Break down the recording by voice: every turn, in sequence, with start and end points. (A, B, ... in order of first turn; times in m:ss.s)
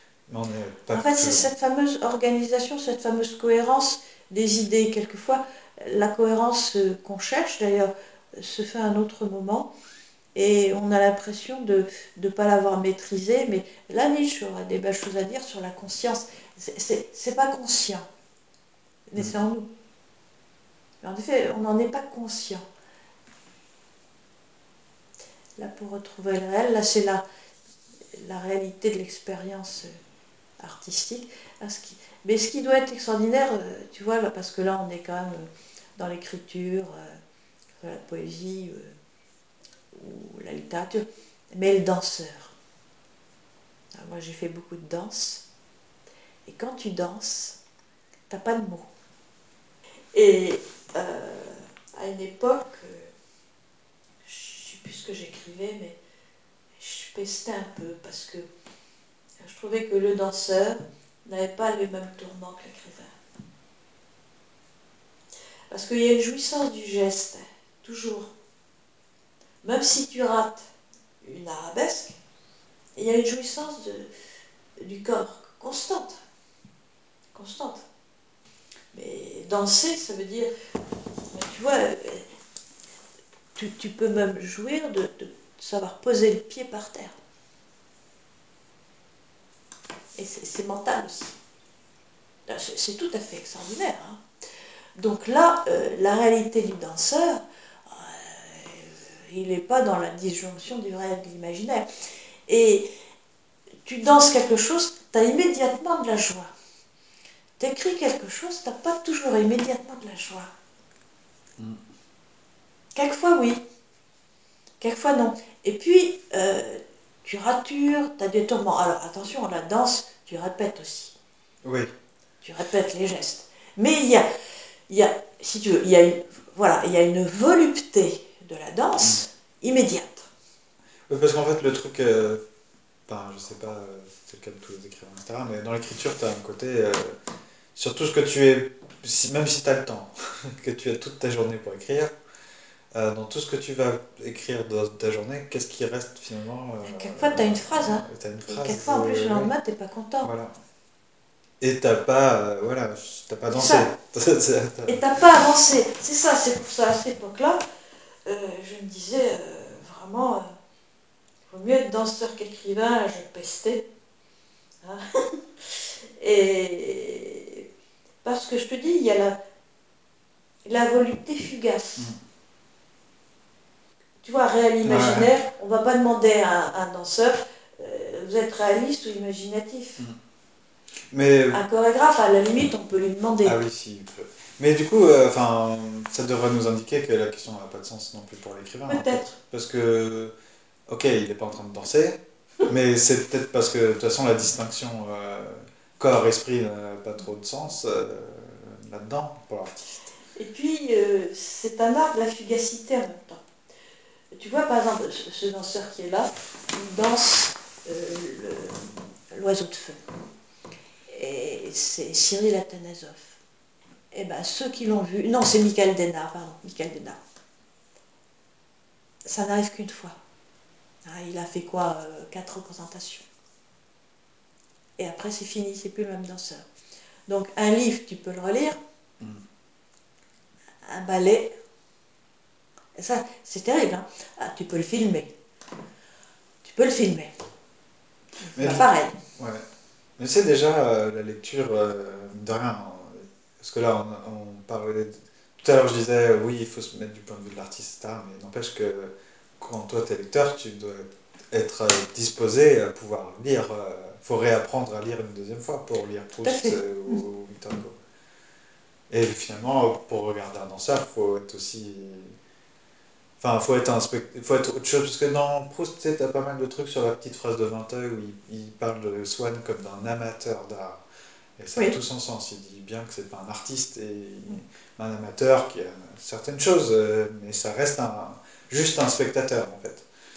0:00.3-0:01.5 A
0:00.9-0:09.7 B
0:10.4-0:18.0 B
0:19.1-0:19.7 B
0:21.0-0:22.6 B
0:25.6-0:27.2 B
0:28.1-0:30.0 B
0:30.6-0:37.2 B
0:37.8-0:39.0 B
0:39.9-0:42.6 B
0:44.0-0:45.4 B
0:46.4-0:47.6 B
0:48.3-0:48.9 B
0:50.1-0:53.1 B
0:54.2-0:56.0 B
0:56.8-0:58.5 B
0:59.4-1:03.1 B
1:05.7-1:08.3 B
1:09.6-1:10.6 B
1:11.2-1:12.2 B
1:13.0-1:14.1 B
1:14.8-1:16.2 B
1:17.4-1:17.8 B
1:18.9-1:20.5 B
1:21.3-1:22.3 B
1:23.6-1:27.2 B
1:30.2-1:31.4 B
1:32.5-1:34.2 B
1:35.0-1:41.9 B
1:42.5-1:42.9 B
1:43.8-1:46.5 B
1:47.6-1:50.5 B
1:53.0-1:53.6 B
1:54.8-2:01.2 B
2:01.6-2:01.9 A
2:02.4-2:04.3 B
2:04.9-2:10.3 B
2:11.1-2:12.4 A
2:13.1-2:17.2 A
2:17.8-2:22.1 A
2:22.9-2:29.5 A
2:26.9-2:30.3 B
2:30.2-2:30.5 A
2:31.6-2:35.0 A
2:33.5-2:33.9 B
2:34.9-2:37.6 B
2:38.3-2:40.5 B
2:41.5-2:43.9 B
2:44.8-2:47.6 B
2:48.2-2:49.4 B
2:50.7-2:52.2 B
2:54.2-3:00.0 B
2:54.8-2:55.3 A
3:01.1-3:01.6 A
3:01.5-3:03.6 B
3:03.4-3:10.3 A
3:08.9-3:09.4 B
3:10.9-3:20.1 A
3:20.4-3:23.4 B
3:24.3-3:30.0 B
3:31.1-3:33.4 B
3:34.1-3:37.2 B
3:39.2-3:40.2 B
3:41.0-3:43.2 B
3:45.0-3:46.6 B
3:47.3-3:48.8 B
3:50.8-3:51.6 B
3:53.0-3:55.3 B
3:56.6-3:57.3 B
3:58.4-3:59.2 B
3:58.6-3:58.8 A
3:59.4-3:59.6 A
4:00.2-4:18.0 A
4:16.4-4:17.2 B
4:19.1-4:22.3 A
4:23.4-4:31.0 A
4:31.6-4:40.0 A